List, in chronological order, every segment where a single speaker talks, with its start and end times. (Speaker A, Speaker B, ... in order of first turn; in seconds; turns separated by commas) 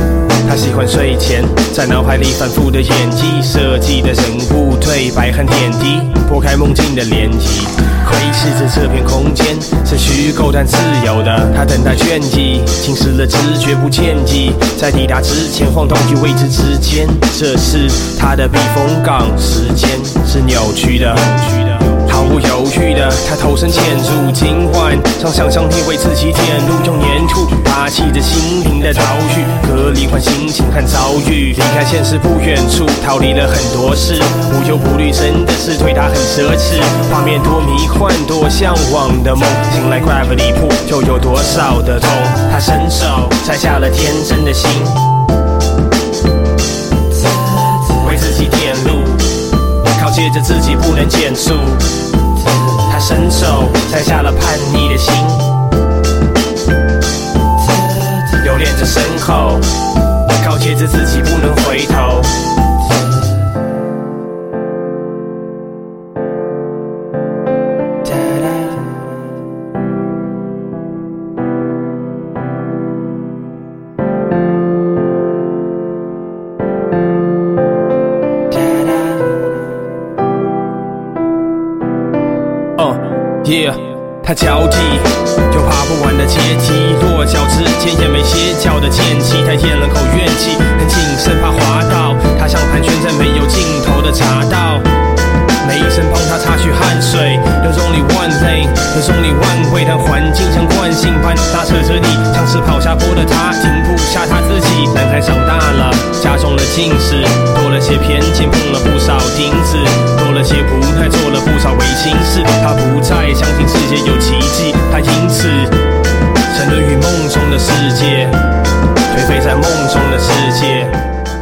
Speaker A: 0.5-45.0, Speaker A: 47.9-51.9, Speaker A: 52.8-55.5, Speaker A: 58.3-59.7, Speaker A: 60.4-62.4, Speaker A: 78.7-79.1, Speaker A: 82.8-94.9, Speaker A: 95.6-115.8, Speaker A: 116.5-118.4, Speaker A: 119.1-121.0